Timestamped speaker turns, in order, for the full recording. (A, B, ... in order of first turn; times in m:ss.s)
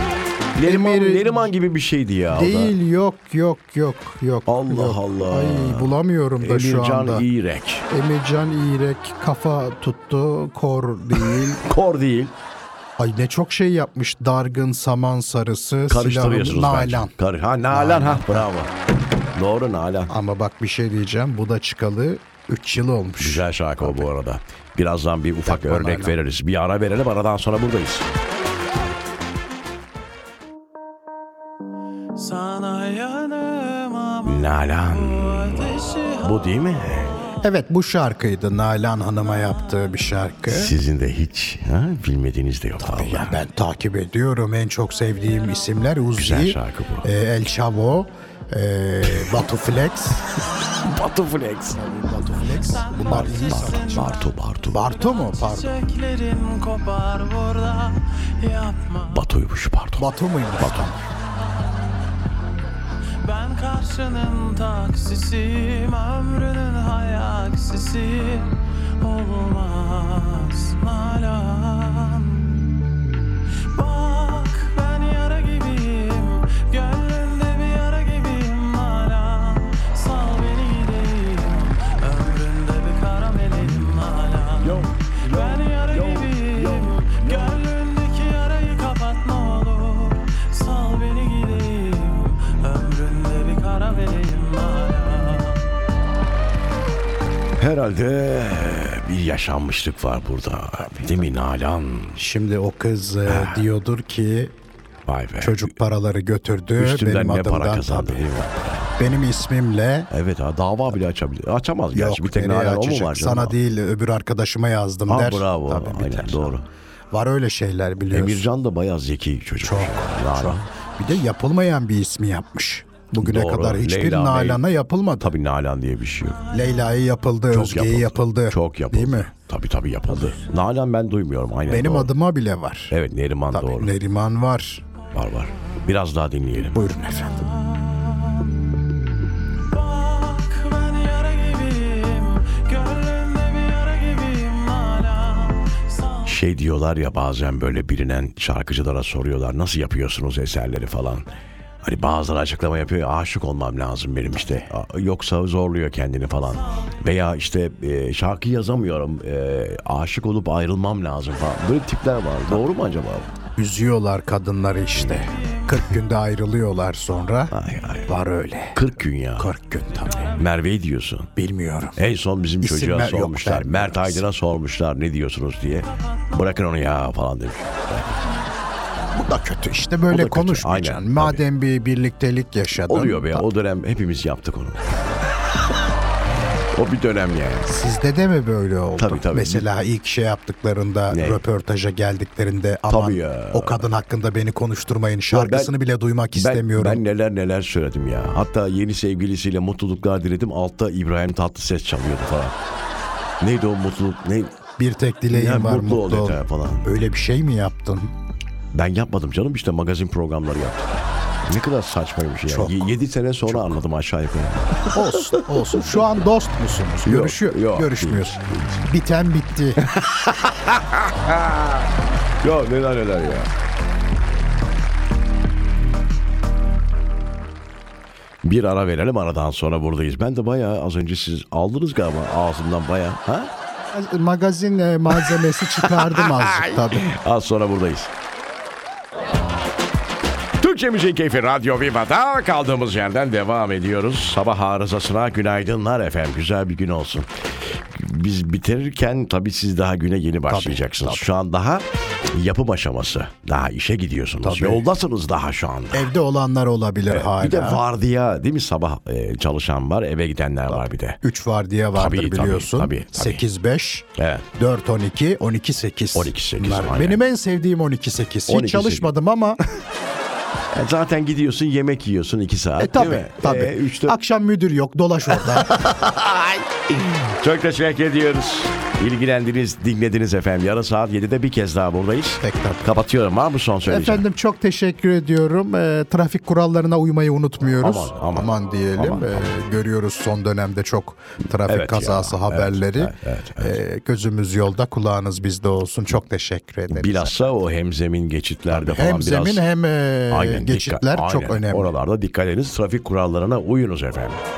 0:00.6-0:02.8 A
0:00.6-0:01.5 B
0:02.3-0:07.3 B
0:04.5-0:07.9 A
0:07.9-0:11.6 B
0:11.5-0:12.4 A
0:13.0-0:17.1 B
0:15.9-0:18.7 A
0:17.7-0:18.5 B
0:19.3-0:20.1 A
0:20.1-0:24.1 B
0:23.2-0:28.1 A
0:25.4-0:26.2 B
0:32.2-0:34.3 C
0:34.2-0:37.2 A
0:35.0-0:36.2 C
0:37.4-0:40.8 B
0:40.5-0:43.4 A
0:42.8-0:50.3 B
0:46.2-0:47.1 A
0:49.1-0:49.4 A
0:50.6-0:54.9 A
0:51.8-0:54.2 B
0:52.9-0:54.1 C
0:54.7-0:55.8 B
0:55.2-0:59.1 C
0:59.1-1:01.0 A
1:00.0-1:01.0 B
1:03.2-1:12.6 C
1:13.7-1:35.6 C
1:24.6-1:27.7 A
1:37.6-1:42.2 A
1:40.9-1:41.2 B
1:42.2-1:44.5 B
1:43.3-1:43.7 A
1:45.1-1:45.7 A
1:45.4-1:48.3 B
1:46.8-1:49.2 A
1:49.0-1:50.1 B
1:50.1-1:53.6 A
1:51.9-1:56.6 B
1:55.1-1:56.6 A
1:57.1-1:58.5 B
1:58.1-2:00.6 A
1:59.6-2:05.3 B
2:03.2-2:04.6 A
2:05.2-2:06.5 A
2:06.5-2:09.3 B
2:07.5-2:12.1 A
2:11.7-2:13.0 B
2:12.9-2:13.9 A
2:13.5-2:14.8 B
2:15.1-2:16.8 A
2:16.7-2:17.6 B
2:17.9-2:18.3 C
2:19.8-2:26.2 C
2:26.2-2:31.3 A
2:31.8-2:43.3 A
2:43.6-2:47.5 B
2:45.0-2:45.3 A
2:47.5-2:48.1 A
2:48.1-2:50.4 B
2:48.8-2:49.5 A
2:50.3-2:51.3 A
2:51.4-2:52.0 B
2:52.0-2:58.2 A
2:52.6-2:54.3 B
2:59.2-3:03.5 B
3:00.1-3:01.4 A
3:02.8-3:05.0 A
3:06.7-3:07.7 A
3:07.7-3:17.0 B
3:09.0-3:09.7 A
3:11.1-3:11.4 A
3:12.9-3:13.9 A
3:15.3-3:15.7 A
3:16.4-3:22.6 A
3:23.4-3:24.5 A
3:24.8-3:28.1 B
3:25.3-3:27.0 A
3:28.7-3:30.9 A
3:31.4-3:36.0 A
3:32.5-3:32.9 B
3:33.5-3:33.8 B
3:34.9-3:39.8 B
3:37.1-3:38.8 A
3:39.8-3:41.9 A
3:42.4-3:43.5 A
3:48.4-3:53.5 A
3:53.9-3:57.1 B
3:55.1-3:58.1 A
4:00.6-4:07.3 A
4:08.0-4:16.1 A
4:10.5-4:11.3 B
4:14.4-4:14.8 B
4:15.9-4:17.8 B
4:17.1-4:21.2 A
4:21.2-4:24.0 B
4:22.0-4:23.4 A
4:24.2-4:24.5 A
4:24.6-4:29.6 B
4:26.1-4:27.2 A
4:28.5-4:29.1 A
4:30.7-4:34.2 A
4:32.8-4:35.7 B
4:35.3-4:44.2 A
4:42.4-4:42.9 B
4:43.8-4:57.3 B
4:47.8-4:49.5 A
4:51.7-4:53.8 A
4:56.9-4:59.7 A
4:58.7-5:01.9 B
5:00.3-5:04.4 A